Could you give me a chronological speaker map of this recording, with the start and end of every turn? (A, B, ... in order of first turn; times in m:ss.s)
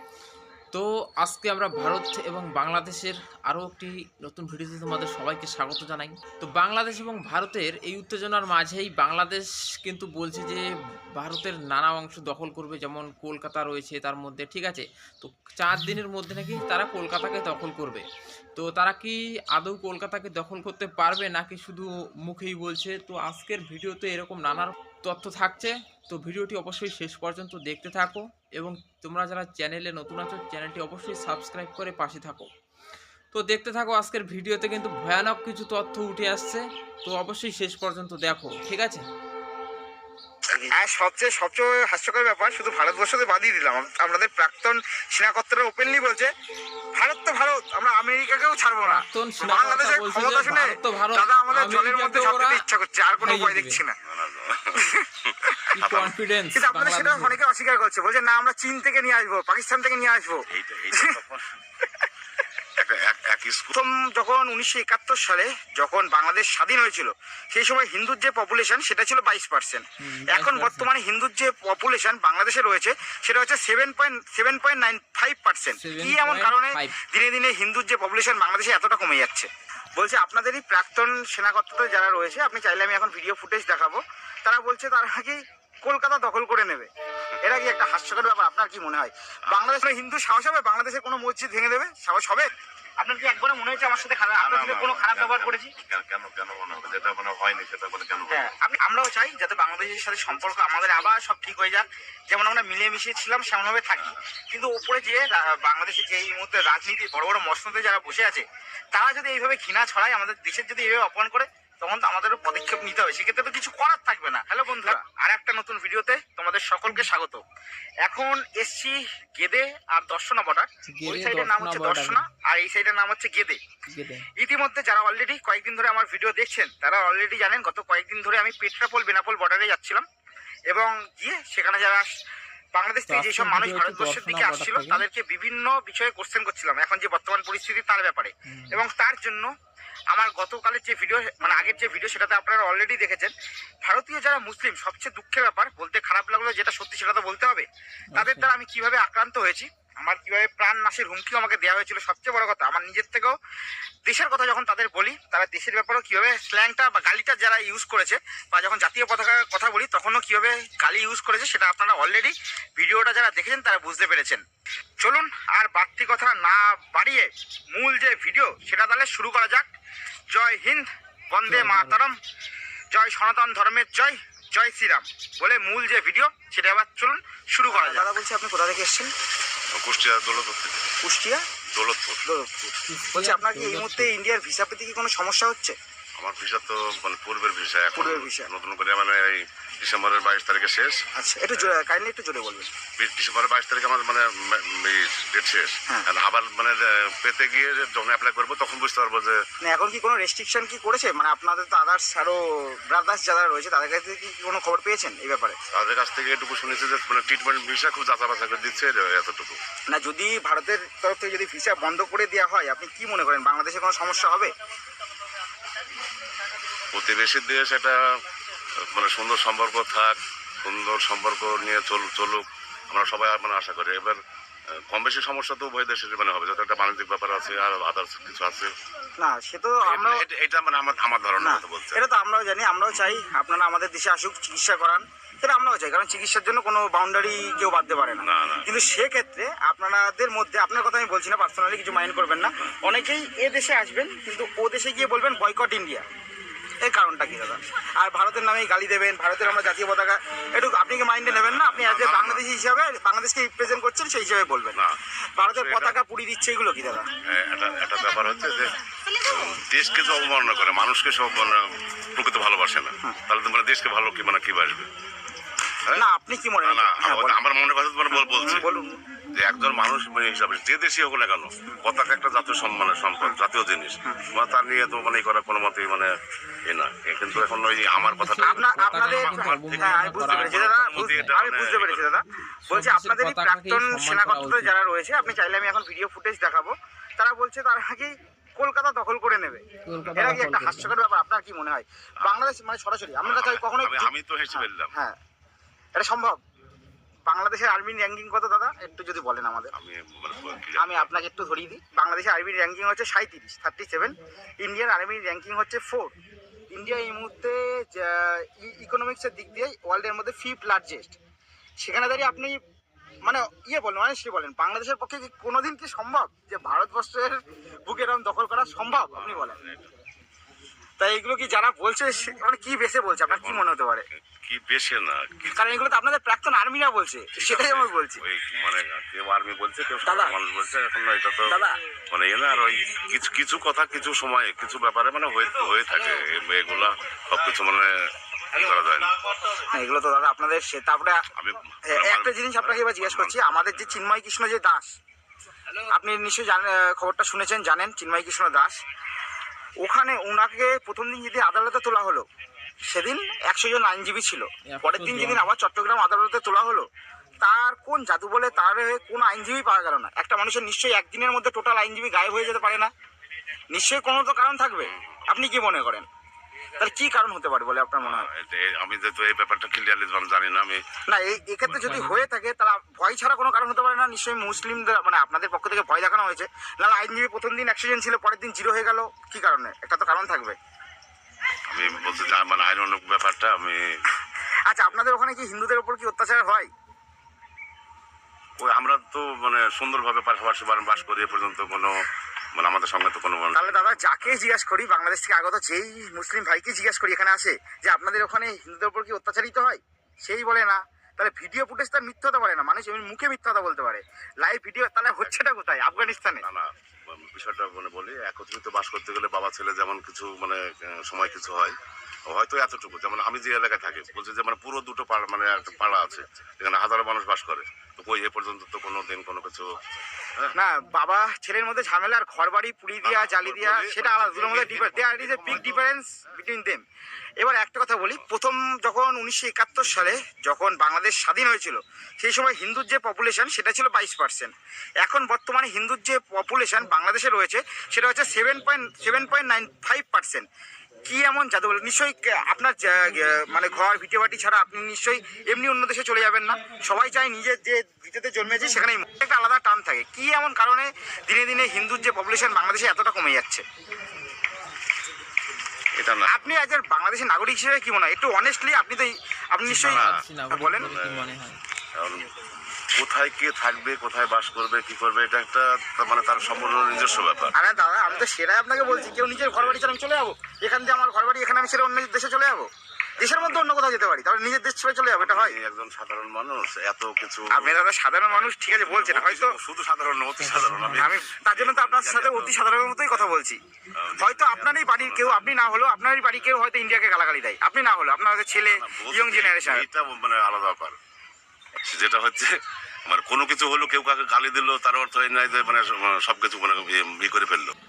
0:00.7-0:18.0 A
0:18.6-0:32.5 A
0:33.3-0:39.1 A
0:40.6-0:46.3 B
0:47.0-0:54.0 B
0:48.9-0:52.6 A
0:53.2-0:53.8 A
0:54.1-0:56.1 C
0:54.8-0:55.0 B
0:55.7-0:57.4 A
0:56.5-1:01.2 B
1:00.5-1:01.5 C
1:02.8-1:03.7 C
1:03.7-1:26.9 B
1:10.0-1:10.9 A
1:15.8-1:17.0 A
1:27.4-1:35.7 B
1:34.3-1:38.5 C
1:38.3-1:57.4 B
1:58.0-2:03.6 B
2:00.9-2:02.2 A
2:03.9-2:04.2 A
2:04.4-2:10.0 B
2:10.7-2:12.1 B
2:12.7-2:19.5 B
2:13.1-2:15.0 A
2:18.5-2:18.8 A
2:20.1-2:23.3 B
2:23.8-2:33.4 B
2:28.1-2:28.5 A
2:34.1-2:44.4 B
2:45.0-2:49.7 B
2:50.3-2:52.2 B
2:51.5-2:52.0 A
2:52.9-2:59.1 B
2:59.8-3:00.9 C
3:01.0-3:01.4 B
3:01.7-3:02.3 C
3:02.3-3:05.8 B
3:02.9-3:04.1 A
3:06.2-3:11.0 C
3:08.0-3:08.5 B
3:11.2-3:12.7 B
3:13.0-3:19.4 C
3:19.6-3:25.6 B
3:25.7-3:29.6 C
3:29.9-3:34.5 B
3:36.9-3:38.0 C
3:38.8-3:44.2 C
3:44.8-3:48.7 C
3:49.2-3:50.2 B
3:49.8-3:52.0 C
3:51.4-4:06.1 B
3:58.2-3:58.7 C
4:06.8-4:14.8 B
4:11.2-4:12.4 C
4:14.8-4:16.0 C
4:15.4-4:17.1 B
4:17.3-4:18.7 C
4:19.2-4:24.9 C
4:26.0-4:27.4 B
4:26.6-4:28.7 C
4:28.3-4:28.9 B
4:29.4-4:36.1 C
4:36.7-4:42.1 C
4:38.0-4:41.3 A
4:38.4-4:55.2 B
4:42.7-4:44.7 A
4:49.9-4:50.9 A
4:50.0-4:50.3 C
4:53.2-4:54.9 C
4:56.0-4:56.4 B
4:57.3-4:59.7 B
4:59.7-5:01.1 C
5:00.8-5:06.1 B
5:06.7-5:11.2 B
5:11.8-5:12.6 B
5:13.2-5:19.6 B
5:19.2-5:19.9 C
5:21.0-5:24.1 B
5:23.3-5:23.7 C
5:24.3-5:25.9 C
5:25.5-5:28.2 B
5:27.4-5:38.0 C
5:30.1-5:30.3 B
5:31.5-5:31.7 B
5:38.5-5:39.2 C
5:39.6-5:41.2 B
5:41.4-5:44.0 C
5:41.9-5:44.9 B
5:45.9-5:48.8 B
5:49.8-5:52.3 B
5:52.9-5:56.9 B
5:54.7-5:55.5 A
5:57.4-6:02.9 B
6:03.7-6:06.1 B
6:04.8-6:05.4 C
6:06.8-6:08.3 B
6:08.0-6:10.8 C
6:11.1-6:20.6 B
6:11.6-6:12.2 A
6:21.7-6:24.0 C
6:24.7-6:26.7 B
6:28.6-6:34.0 C
6:33.6-6:46.5 B
6:45.9-6:51.8 C
6:52.3-7:00.5 C
7:00.6-7:06.8 B
7:03.0-7:05.8 C
7:07.4-7:20.5 B
7:21.1-7:33.6 B
7:36.0-7:36.5 C
7:36.3-7:40.9 B
7:39.7-7:41.6 A
7:39.8-7:40.2 C
7:40.8-7:41.2 C
7:42.0-7:42.3 C
7:42.9-7:47.6 C
7:47.5-7:55.6 B
7:49.5-7:49.9 C
7:55.2-8:02.6 C
7:57.5-7:59.6 B
8:00.4-8:01.1 A
8:00.9-8:03.6 B
8:04.0-8:05.6 C
8:04.2-8:09.9 B
8:08.6-8:11.0 C
8:11.9-8:17.7 C